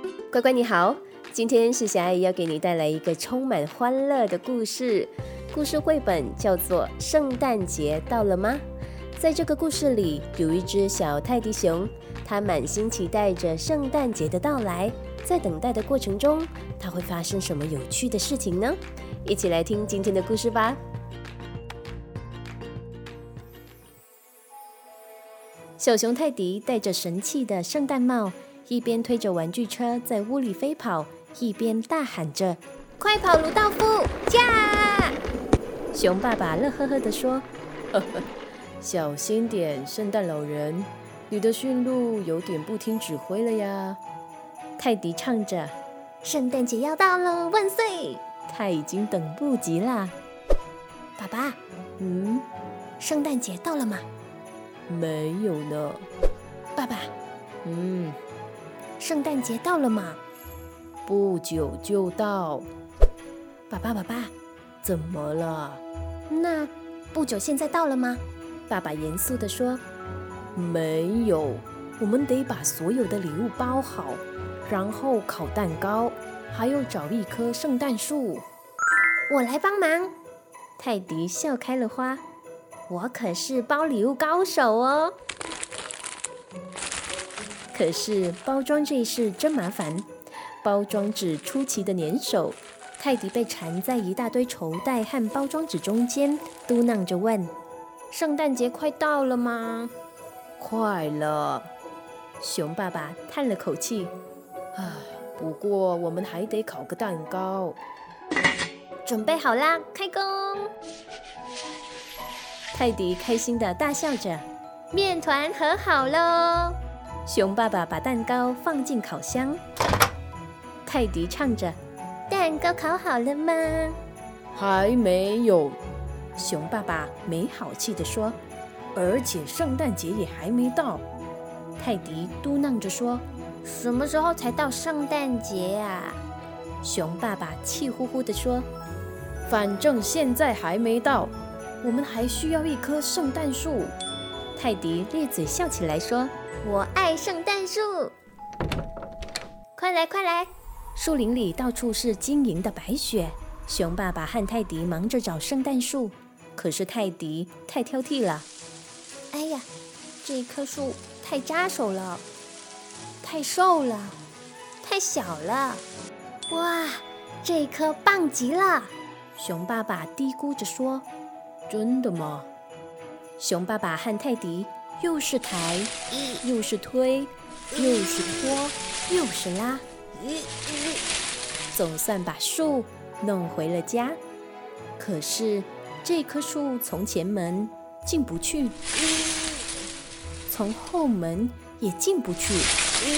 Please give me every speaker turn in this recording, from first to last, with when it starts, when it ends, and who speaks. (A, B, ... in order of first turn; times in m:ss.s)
0:00.3-0:08.6 A
0:09.2-0:20.8 A
0:25.8-0:35.2 A
0:35.9-0:38.2 A
0:38.8-0:44.0 A
0:44.8-0:50.1 A
0:51.2-0:52.4 A
0:53.0-0:54.1 A
0:54.9-0:56.0 A
0:56.8-0:57.1 A
0:57.6-0:58.2 A
0:59.0-1:00.2 A
1:01.0-1:02.7 A
1:03.7-1:09.8 A
1:10.5-1:18.4 A
1:19.3-1:20.1 A
1:20.8-1:22.2 A
1:22.9-1:25.2 A
1:27.7-1:30.1 A
1:30.6-1:37.5 A
1:38.1-1:39.9 A
1:40.6-1:41.7 A
1:42.4-1:44.1 A
1:44.7-1:47.8 A
1:49.0-1:50.7 A
1:52.7-1:59.6 A
2:00.8-2:01.8 A
2:02.3-2:04.0 A
2:04.5-2:05.8 A
2:06.4-2:08.4 A
2:08.9-2:11.0 A
2:11.8-2:16.2 A
2:16.8-2:18.7 A
2:19.4-2:23.9 A
2:24.6-2:28.1 A
2:29.8-2:38.5 A
2:39.3-2:39.7 A
2:40.2-2:42.2 A
2:43.2-2:44.2 A
2:44.8-2:45.8 A
2:46.5-2:51.0 A
2:51.7-2:52.5 A
2:53.4-2:59.8 A
3:01.7-3:04.2 A
3:05.0-3:08.8 A
3:10.5-3:12.8 A